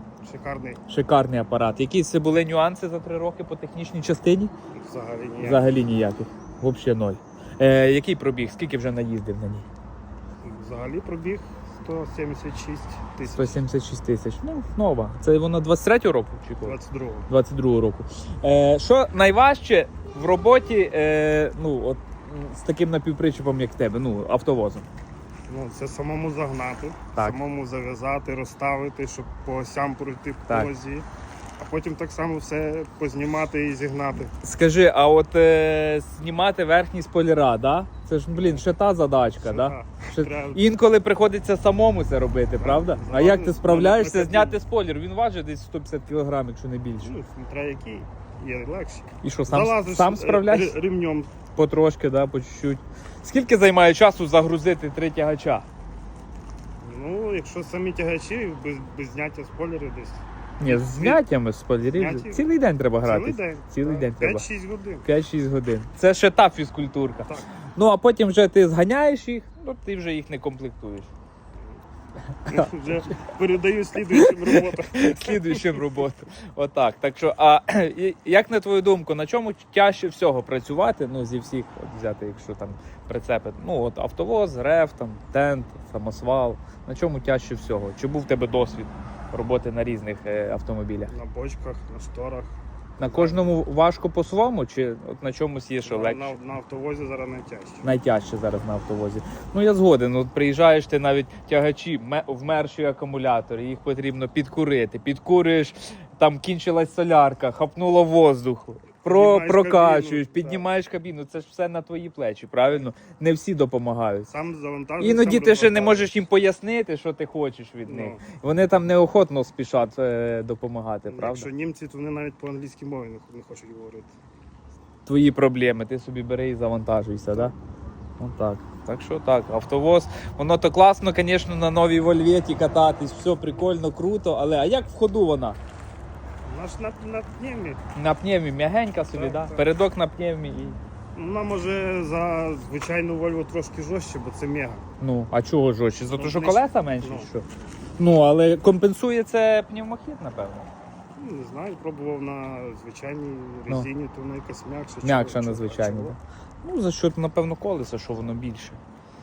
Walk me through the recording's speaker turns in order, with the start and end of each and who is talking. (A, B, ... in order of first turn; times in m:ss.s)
0:00.2-0:00.8 A
0:00.9-0:04.5 B
0:04.7-0:05.7 A
0:05.4-0:09.7 B
0:10.4-0:13.6 A
0:13.3-0:16.8 B
0:16.6-0:17.3 A
0:17.3-0:24.9 B
0:25.5-0:31.1 A
0:31.6-0:34.3 A
0:34.4-0:47.1 B
0:38.3-0:38.7 A
0:39.4-0:40.7 A
0:42.6-0:44.6 A
0:47.0-0:51.3 A
0:49.2-0:50.8 B
0:51.6-0:55.7 B
0:56.8-1:01.2 A
1:00.6-1:04.5 B
1:01.9-1:02.5 A
1:03.0-1:05.1 A
1:05.0-1:11.1 B
1:12.5-1:15.9 A
1:14.2-1:31.1 B
1:31.1-1:33.5 A
1:33.0-1:36.4 B
1:35.8-1:37.8 A
1:37.8-1:54.3 B
1:49.0-1:50.7 A
1:54.3-1:56.1 A
1:55.0-2:01.5 B
1:57.9-1:58.2 A
2:01.1-2:04.1 A
2:05.1-2:07.6 B
2:08.2-2:15.6 B
2:16.5-2:17.8 A
2:18.0-2:20.8 B
2:19.1-2:19.6 A
2:21.2-2:24.8 A
2:25.0-2:27.5 B
2:26.2-2:27.3 A
2:28.0-2:30.7 B
2:31.2-2:36.2 A
2:35.0-2:38.8 B